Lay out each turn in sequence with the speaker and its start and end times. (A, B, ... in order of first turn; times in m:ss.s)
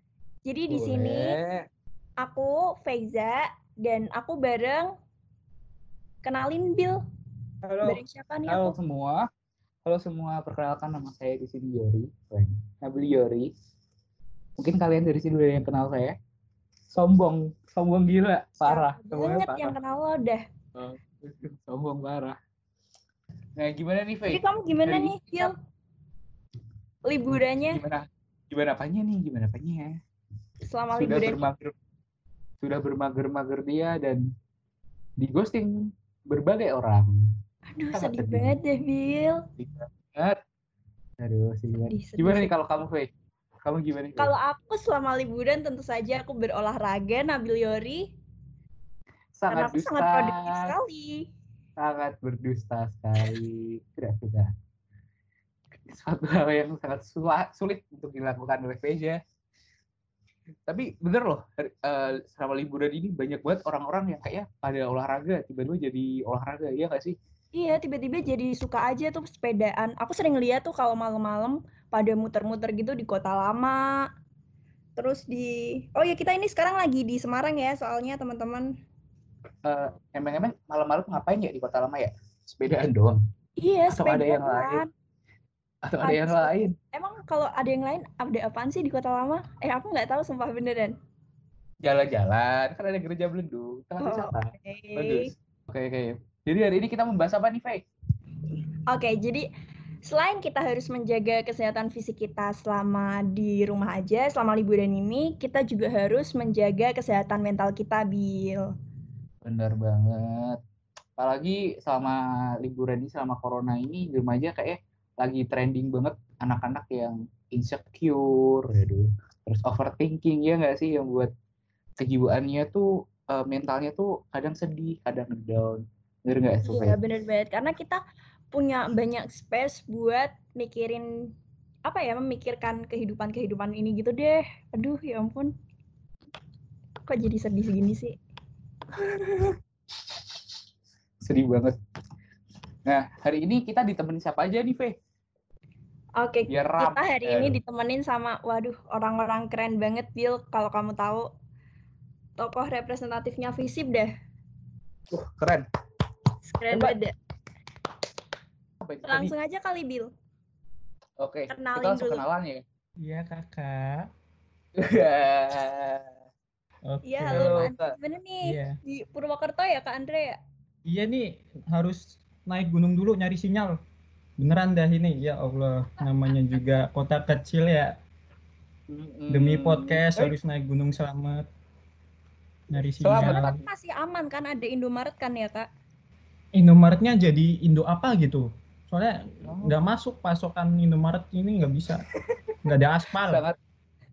0:00.4-0:01.4 A
0:00.7-0:01.6 B
0:02.2-0:04.9 A
0:06.2-0:07.0 A
0:07.6-0:09.2 B
0:07.8-0:08.8 A
0:09.8-0:13.5 B
0:14.6-0:16.2 B
0:16.9-0:19.8 B
0:18.6-0:20.4 A
0:20.8-0:22.4 B
0:23.6-0:25.5 B
0:24.3-0:25.5 A
0:27.0-0:27.8 A
0:27.3-0:30.0 B
0:30.6-0:31.5 A
0:30.9-0:31.7 B
0:32.6-0:34.2 B
0:35.2-0:35.8 B
0:36.3-0:37.2 B
0:37.7-0:39.4 A
0:37.9-0:38.6 B
0:39.6-0:40.4 B
0:41.2-0:43.1 B
0:41.7-0:42.5 A
0:43.6-0:44.3 B
0:44.2-0:48.1 A
0:49.4-0:50.7 B
0:49.5-0:51.3 A
0:51.8-0:54.5 B
0:55.9-0:59.2 B
1:00.7-1:07.2 B
1:07.5-1:13.9 A
1:15.0-1:18.7 A
1:19.6-1:23.2 B
1:23.6-1:24.9 A
1:23.9-1:24.8 B
1:25.8-1:26.7 B
1:26.0-1:31.0 A
1:31.8-1:37.8 B
1:34.0-1:35.3 A
1:38.9-1:39.5 A
1:40.0-1:48.7 A
1:49.4-1:50.6 B
1:51.2-2:01.3 B
2:02.0-2:07.0 B
2:06.7-2:11.3 A
2:11.8-2:15.5 A
2:17.1-2:18.2 A
2:18.9-2:19.6 B
2:21.2-2:21.8 B
2:22.8-2:25.0 B
2:26.2-2:31.3 A
2:26.5-2:27.6 B
2:32.4-2:34.1 A
2:35.1-2:35.6 B
2:36.4-2:37.1 A
2:36.7-2:37.0 B
2:38.8-2:39.3 B
2:39.0-2:40.1 A
2:41.2-2:42.6 B
2:41.5-2:42.2 A
2:43.0-2:44.1 C
2:44.8-2:46.1 B
2:46.9-2:47.7 C
2:47.0-2:50.4 A
2:47.3-2:47.9 B
2:48.4-2:48.8 C
2:50.8-2:53.8 C
2:54.4-2:58.0 C
2:58.9-3:00.3 B
2:59.3-3:01.5 C
3:02.7-3:03.6 C
3:03.0-3:03.6 B
3:03.2-3:05.7 A
3:06.5-3:12.0 C
3:09.4-3:09.8 B
3:12.6-3:13.4 C
3:13.2-3:13.6 B